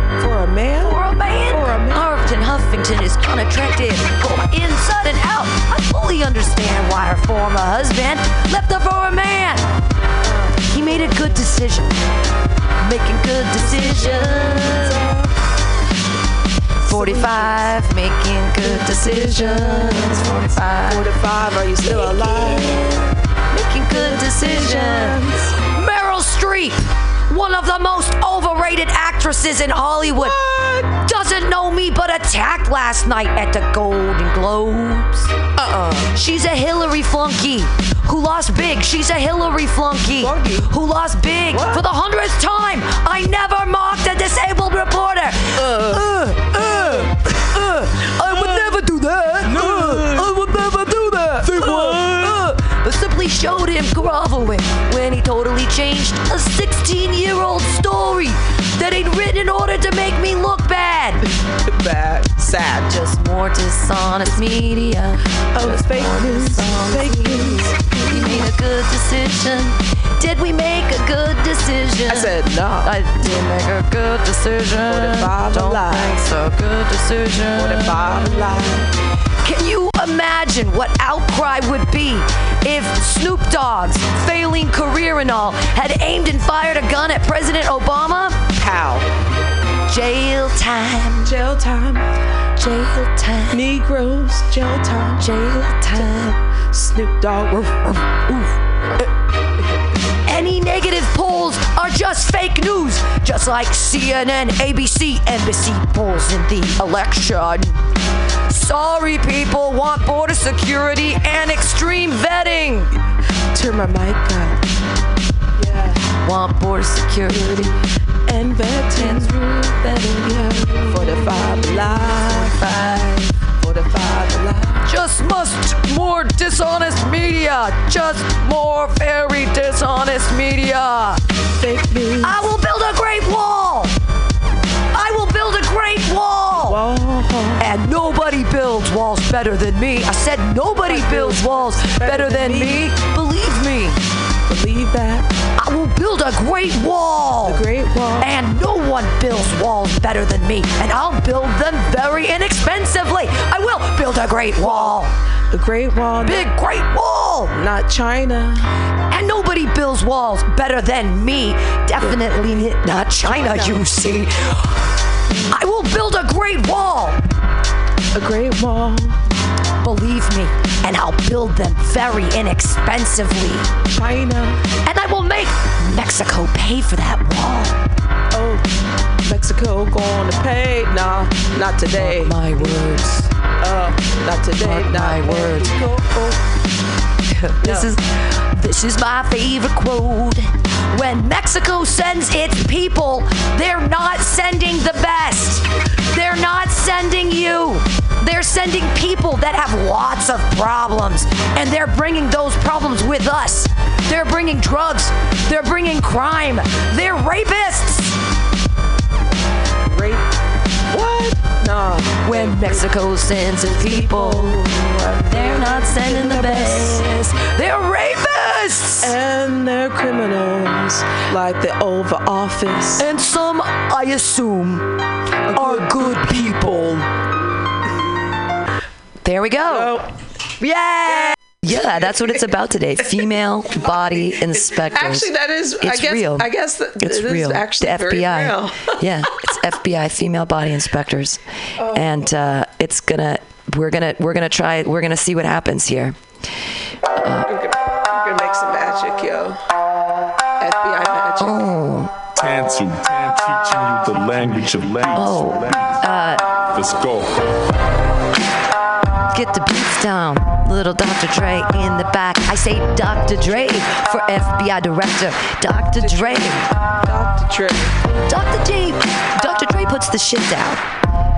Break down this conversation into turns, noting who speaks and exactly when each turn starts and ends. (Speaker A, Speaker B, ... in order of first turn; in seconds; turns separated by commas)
Speaker A: 0.2-2.0, Speaker B: 0.8-9.7, Speaker A: 10.2-11.4, Speaker B: 10.7-12.0, Speaker B: 12.8-15.0, Speaker A: 13.6-15.3, Speaker A: 16.8-17.7, Speaker B: 16.9-21.1, Speaker A: 18.6-22.8, Speaker B: 21.8-30.4, Speaker A: 23.9-25.5, Speaker A: 30.2-31.0, Speaker B: 30.9-35.4, Speaker A: 35.6-36.1, Speaker B: 36.1-61.2, Speaker A: 40.2-40.7, Speaker A: 41.5-41.8, Speaker A: 45.6-46.1, Speaker A: 46.6-47.1, Speaker A: 48.3-48.7, Speaker A: 49.5-50.3, Speaker A: 51.3-52.4, Speaker A: 61.6-63.0, Speaker B: 62.9-78.6, Speaker A: 65.5-68.5, Speaker A: 72.1-72.9, Speaker A: 74.9-76.2, Speaker A: 77.5-78.9, Speaker B: 79.4-88.5, Speaker A: 88.5-89.1, Speaker B: 89.9-91.3, Speaker A: 91.2-92.0, Speaker B: 92.6-93.6, Speaker A: 93.5-95.3, Speaker B: 95.2-96.4, Speaker A: 96.7-98.0, Speaker B: 100.3-107.8, Speaker B: 108.5-112.9, Speaker A: 113.5-114.6, Speaker A: 115.6-116.1, Speaker B: 116.2-117.8, Speaker A: 118.3-119.5, Speaker B: 118.9-123.1, Speaker A: 120.3-124.9, Speaker B: 124.8-131.2, Speaker A: 131.6-132.5, Speaker B: 132.2-133.9, Speaker B: 134.9-136.8, Speaker A: 136.6-137.6, Speaker B: 137.6-144.0, Speaker A: 140.8-142.9, Speaker A: 144.5-145.3, Speaker B: 145.6-147.6, Speaker A: 147.4-148.3, Speaker B: 148.2-155.2, Speaker A: 154.6-154.9, Speaker A: 155.5-156.5, Speaker B: 156.2-157.6, Speaker A: 157.5-158.7, Speaker B: 159.1-164.8, Speaker A: 163.2-163.9, Speaker B: 165.5-167.2, Speaker A: 168.1-169.2, Speaker B: 169.8-173.7, Speaker A: 173.9-174.6, Speaker B: 174.8-177.8, Speaker A: 178.3-178.7, Speaker A: 179.2-182.3, Speaker B: 181.9-183.3, Speaker A: 183.6-186.4, Speaker B: 184.6-185.8, Speaker B: 187.3-208.2, Speaker A: 187.6-187.9, Speaker A: 209.9-210.3, Speaker A: 210.9-212.9, Speaker B: 212.2-214.6, Speaker A: 213.6-217.0, Speaker B: 215.3-219.2, Speaker A: 219.0-223.1, Speaker B: 223.0-224.9, Speaker A: 225.5-226.2, Speaker B: 225.5-227.1, Speaker B: 229.2-230.0, Speaker A: 229.7-230.1, Speaker B: 230.6-246.2, Speaker A: 231.1-232.4, Speaker A: 233.8-239.0, Speaker A: 241.8-242.1, Speaker B: 247.2-247.5, Speaker A: 247.5-249.6, Speaker A: 250.6-251.6, Speaker B: 251.4-252.1, Speaker C: 252.4-255.3, Speaker B: 255.2-256.4, Speaker C: 256.8-257.2, Speaker B: 259.3-266.7, Speaker A: 265.9-267.9, Speaker B: 268.3-270.8